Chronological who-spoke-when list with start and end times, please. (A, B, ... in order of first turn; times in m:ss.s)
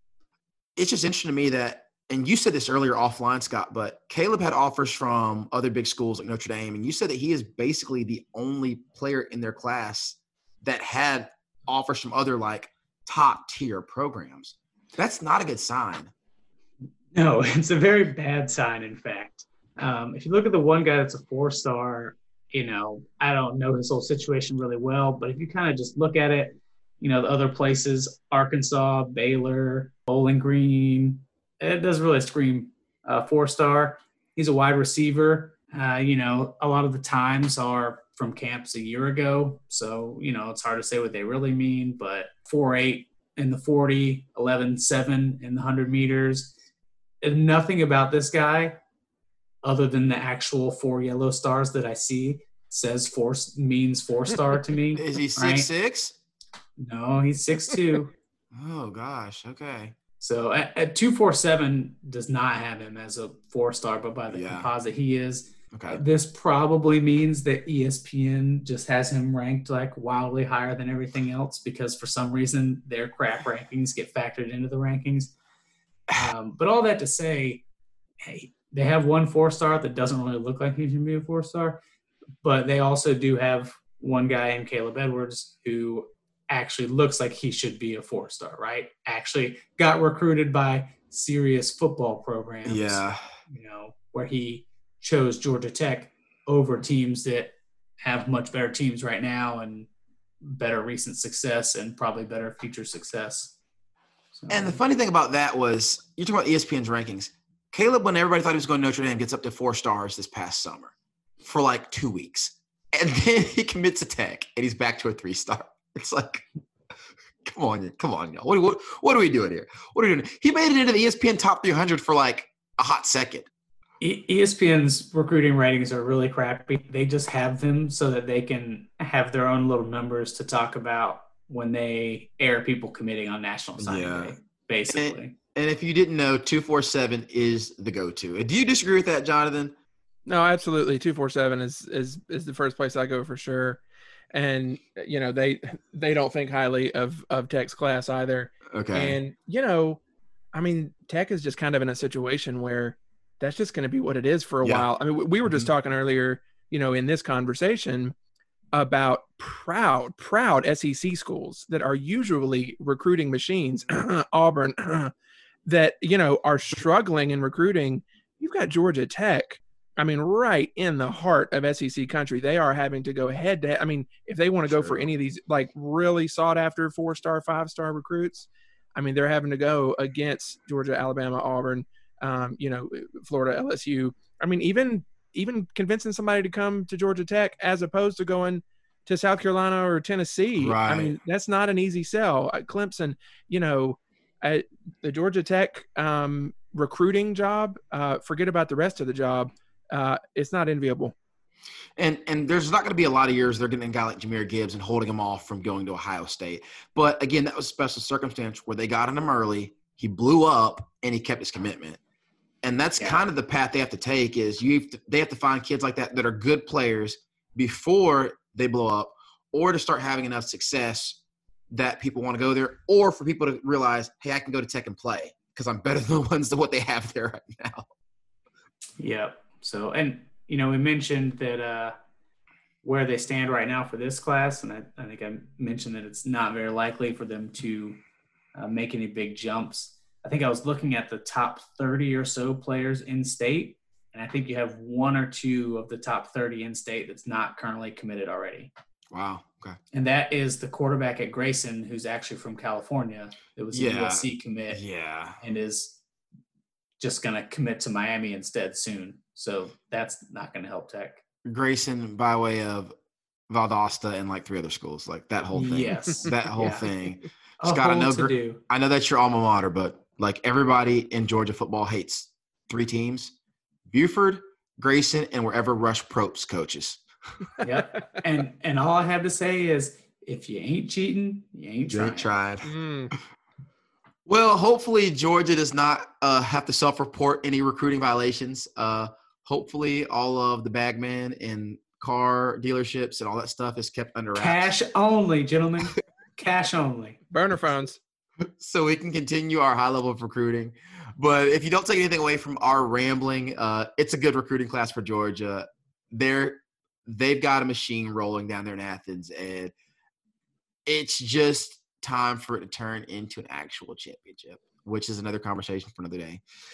0:00.8-0:16.1 A
0:17.1-0:46.5 B
0:47.2-0:48.8 B
0:49.6-0:55.7 B
0:54.9-0:56.2 A
0:56.8-0:58.1 B
0:58.5-0:59.9 A
1:00.2-1:15.3 B
1:04.3-1:04.7 A
1:05.7-1:06.0 A
1:16.1-1:17.6 B
1:18.2-1:21.8 B
1:22.4-1:39.9 B
1:32.6-1:33.3 A
1:40.4-1:43.6 B
1:44.3-1:44.8 B
1:44.5-1:56.4 A
1:57.4-2:03.5 A
2:04.0-2:15.4 B
2:13.8-2:14.3 A
2:14.9-2:19.7 A
2:20.2-2:23.8 C
2:24.3-2:30.0 C
2:28.7-2:29.2 A
2:30.5-2:38.1 C
2:38.7-2:45.1 C
2:45.6-3:21.1 C
2:54.7-2:55.0 A
3:10.6-3:11.1 A
3:22.0-3:32.0 A
3:32.6-3:41.2 A
3:33.0-3:33.2 B
3:41.7-3:47.9 A
3:49.0-3:51.9 B
3:52.8-3:58.0 B
3:58.5-4:08.7 B
4:09.1-4:09.8 A
4:09.9-4:14.8 B
4:13.7-4:15.4 A
4:15.4-4:16.0 B
4:17.0-4:21.2 B
4:21.4-4:22.9 A
4:23.5-4:33.3 A
4:25.5-4:26.9 B
4:27.6-4:28.6 B
4:33.9-4:37.0 A
4:37.6-4:42.3 B
4:41.9-4:42.7 A
4:42.6-4:43.1 C
4:44.2-4:54.7 A
4:54.3-4:57.2 B
4:57.3-4:58.0 C
4:58.6-5:09.7 A
5:10.8-5:16.4 A